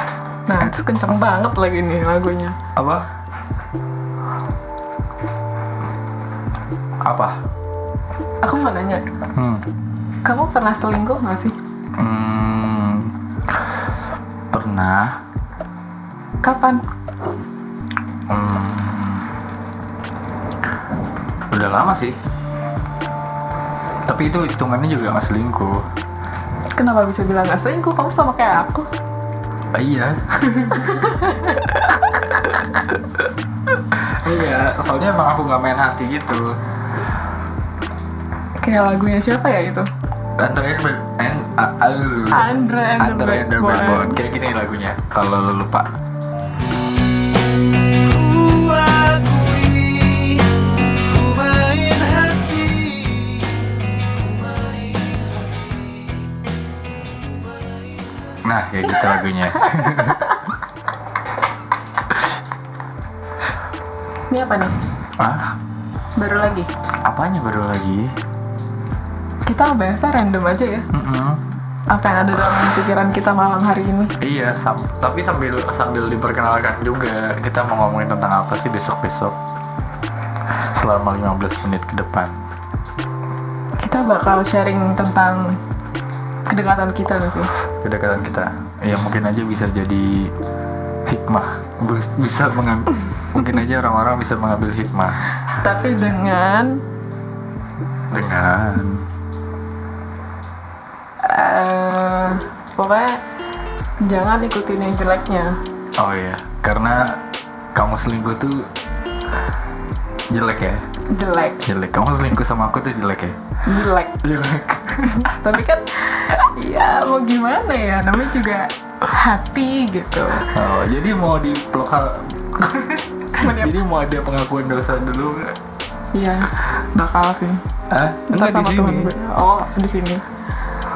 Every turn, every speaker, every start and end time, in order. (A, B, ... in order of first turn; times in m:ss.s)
0:00.5-0:02.6 A
0:02.7-0:03.1 B
0:07.0-0:07.4 B
0:08.4-0:09.0 A
0:09.3-0:09.6 B
0:10.2-0:11.6 A
0:12.0-0:13.7 B
0:14.5-0:15.2 B
0:16.4-0:16.8 A
0:18.3-0:19.3 B
0:21.5-0:22.2 B
0:24.1-0:25.8 B
0:26.7-0:28.9 A
0:29.7-0:32.1 B
0:30.9-0:31.6 A
0:33.9-0:36.6 B
0:38.6-0:39.9 A
0:40.4-0:42.5 B
0:42.3-0:44.2 A
0:43.0-0:45.9 B
0:48.0-0:50.5 C
0:51.0-0:53.4 C
0:54.4-0:55.2 C
0:58.4-1:00.4 B
1:04.3-1:04.8 A
1:05.2-1:05.6 B
1:06.2-1:06.7 A
1:07.0-1:08.2 B
1:09.4-1:10.9 A
1:10.9-1:11.4 B
1:11.9-1:14.1 A
1:14.2-1:19.4 B
1:20.6-1:22.5 B
1:23.8-1:25.6 A
1:26.5-1:27.5 A
1:27.8-1:30.3 B
1:31.1-1:35.2 B
1:35.6-1:36.8 A
1:38.1-1:39.0 B
1:41.2-1:43.2 A
1:44.0-1:45.6 A
1:46.0-1:47.2 B
1:47.7-1:48.7 B
1:50.3-1:50.8 B
1:51.1-1:51.6 A
1:51.6-1:53.4 B
1:53.6-1:54.1 A
1:54.2-1:55.5 B
1:55.2-2:00.5 A
2:00.4-2:05.6 B
2:03.4-2:03.7 A
2:06.1-2:07.6 A
2:07.9-2:09.1 B
2:08.3-2:10.2 A